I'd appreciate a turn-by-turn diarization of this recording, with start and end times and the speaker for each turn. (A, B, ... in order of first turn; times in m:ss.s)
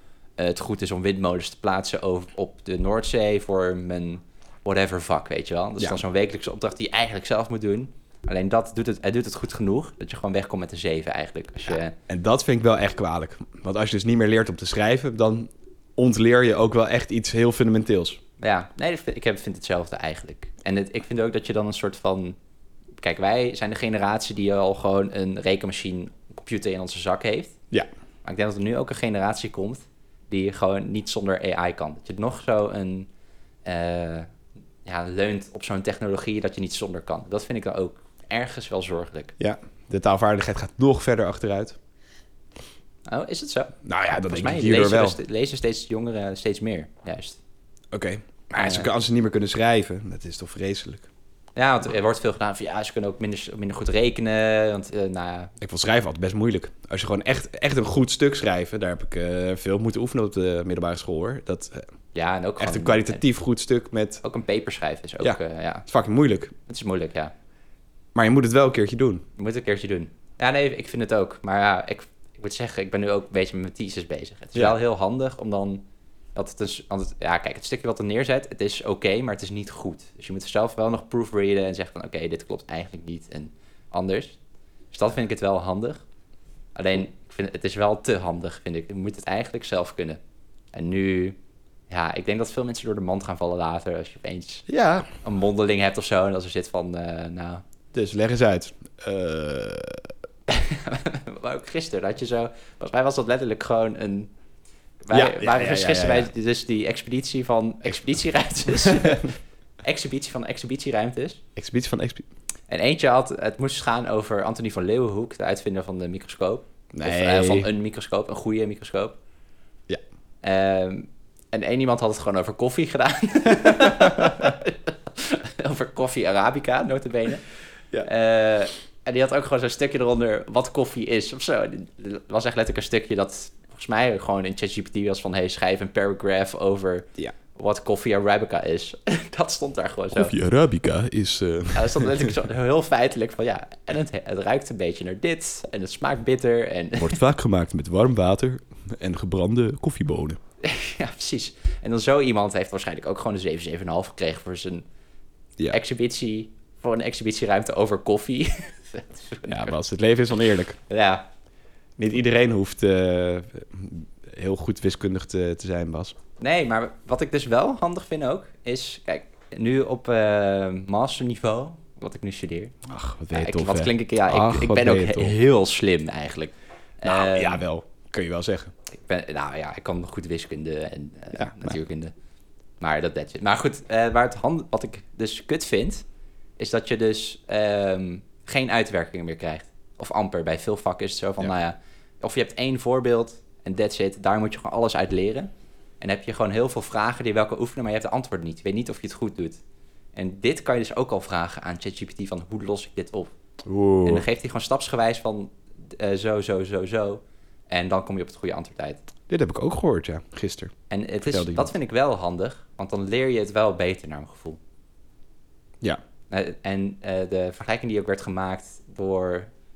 0:00.4-0:12.0 A
0:11.7-0:18.2 B
0:18.4-0:22.4 A
0:23.0-0:27.6 A
0:28.2-0:33.1 A
0:33.6-0:34.3 A
0:34.8-0:39.3 A
0:39.4-0:41.8 B
0:43.1-0:43.8 A
0:43.8-0:45.2 B
0:44.3-0:47.4 A
0:47.9-0:51.1 B
0:48.6-0:48.9 A
0:51.6-0:55.5 A
0:55.6-1:01.8 B
1:02.2-1:03.2 A
1:02.6-1:04.2 B
1:04.2-1:05.9 A
1:05.2-1:06.5 B
1:06.7-1:07.3 A
1:08.2-1:09.2 B
1:09.4-1:15.8 A
1:16.4-1:24.4 A
1:24.9-1:26.0 A
1:26.8-1:30.2 A
1:30.7-1:31.4 A
1:31.9-1:34.7 A
1:34.7-1:35.1 B
1:35.2-1:37.6 A
1:37.9-1:40.1 B
1:40.5-1:44.3 A
1:45.0-1:51.4 A
1:45.1-1:46.3 B
1:48.8-1:49.2 B
1:51.6-1:52.3 B
1:52.7-1:59.2 A
1:56.9-1:57.7 B
2:00.4-2:07.4 A
2:08.0-2:20.3 A
2:20.1-2:22.3 B
2:21.7-2:27.2 A
2:27.0-2:30.4 B
2:30.6-2:34.8 A
2:35.7-2:39.7 A
2:39.5-2:40.8 B
2:40.9-2:41.2 A
2:42.0-2:46.2 B
2:46.4-2:52.8 A
2:52.9-2:55.4 B
2:53.3-2:57.6 A
2:57.0-2:58.7 B
2:59.0-3:02.1 A
3:01.4-3:01.7 B
3:02.8-3:06.0 A
3:06.6-3:15.5 A
3:16.0-3:19.6 A
3:20.2-3:23.3 A
3:23.6-3:24.3 B
3:24.0-3:29.0 A
3:29.3-3:30.7 B
3:30.9-3:34.6 A
3:31.3-3:31.7 B
3:36.3-3:39.5 A